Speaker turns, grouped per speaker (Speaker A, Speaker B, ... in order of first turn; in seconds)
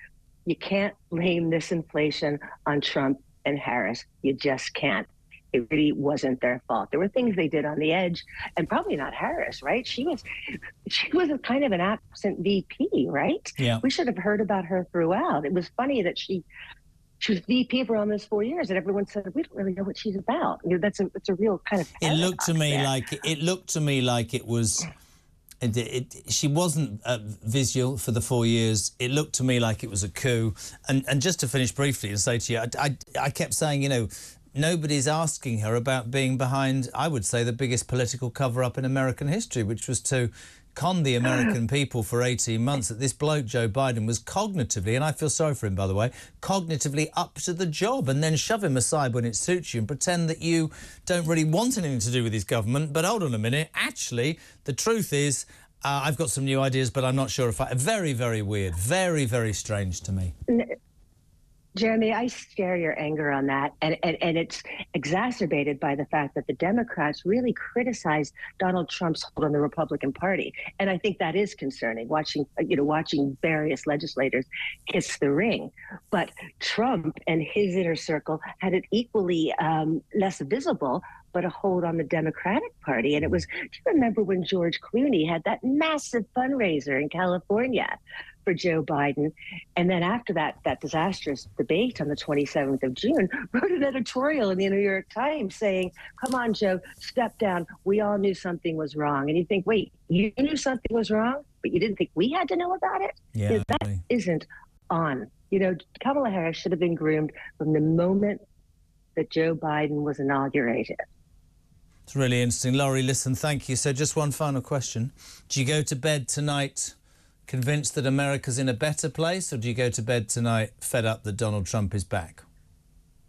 Speaker A: 0.5-10.2, 10.8-16.4, 17.2-22.9, 61.8-108.4, 109.2-111.0
Speaker B: 22.0-24.9, 25.6-60.3, 103.3-104.0, 112.1-117.0, 117.5-122.4